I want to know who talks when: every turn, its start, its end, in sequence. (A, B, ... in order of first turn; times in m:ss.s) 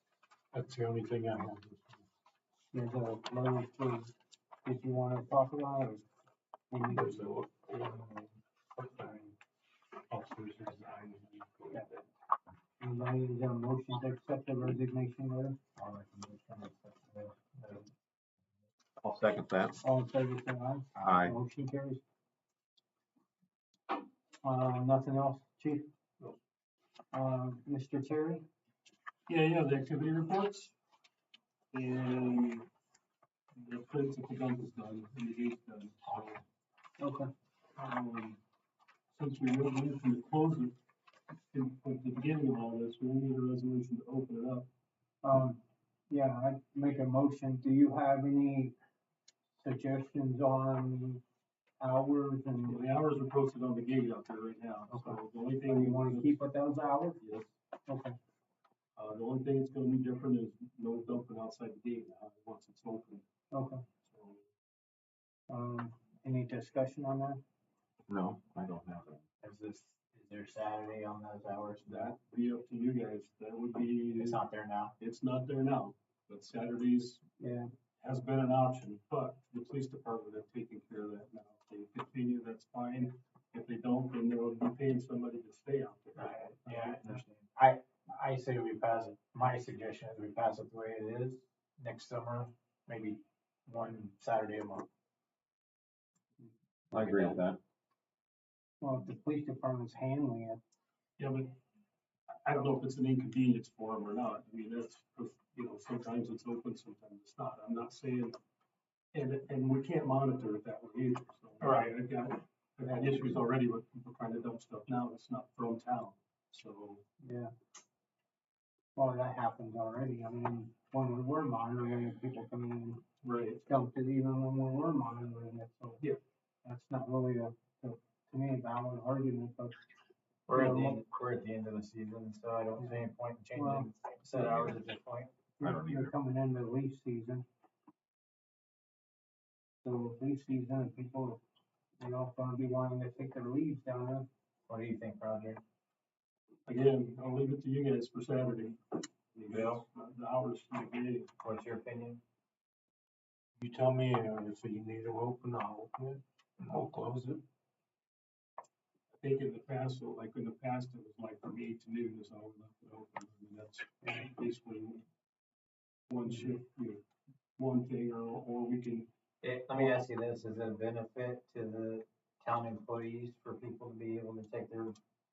0:00.5-0:02.0 A
0:02.7-0:04.1 B
0:04.6-0:06.0 B
0:06.7-0:07.3 B
0:06.9-0:08.2 A
0:08.8-0:09.3 A
0:10.1-0:12.0 A
0:12.8-0:15.6 B
0:15.8-0:17.9 C
0:19.0-0:19.7 D
0:19.8-0:22.0 B
0:21.0-0:21.3 D
0:24.4-0:25.9 B
0:27.1-0:28.4 B
0:29.3-0:30.7 A
0:31.7-0:32.7 A
0:33.5-0:36.4 A
0:37.0-0:37.3 B
0:37.7-0:38.4 A
0:39.1-0:40.8 A
0:41.5-0:44.7 A
0:45.2-0:48.7 B
0:49.6-0:51.2 B
0:51.8-0:52.8 B
0:52.7-0:56.4 A
0:54.9-0:57.2 B
0:57.2-0:57.5 A
0:57.9-0:58.2 B
0:59.0-1:03.2 A
1:03.5-1:03.8 B
1:04.0-1:04.4 A
1:05.5-1:07.4 B
1:08.1-1:09.2 D
1:09.4-1:12.1 C
1:11.9-1:14.4 A
1:14.1-1:15.0 C
1:15.0-1:17.2 A
1:17.4-1:17.7 B
1:18.0-1:27.2 A
1:26.2-1:34.9 C
1:36.9-1:37.6 D
1:37.0-1:37.3 C
1:38.8-1:40.6 B
1:41.2-1:41.6 A
1:42.3-1:48.4 A
1:49.1-1:57.0 A
1:51.6-1:51.9 C
1:52.8-1:53.3 B
1:57.2-1:57.5 B
1:58.9-2:03.0 B
2:03.2-2:03.7 A
2:03.6-2:06.0 B
2:06.6-2:09.8 B
2:10.5-2:15.4 C
2:10.5-2:11.0 B
2:13.5-2:13.9 B
2:15.6-2:17.4 B
2:15.7-2:16.1 D
2:19.8-2:21.4 B
2:22.0-2:24.3 B
2:24.7-2:25.6 C
2:26.6-2:31.3 A
2:29.5-2:29.8 C
2:31.4-2:32.2 C
2:33.6-2:37.4 A
2:39.1-2:45.0 A
2:46.1-2:47.0 A
2:47.6-2:49.1 A
2:49.4-2:55.0 C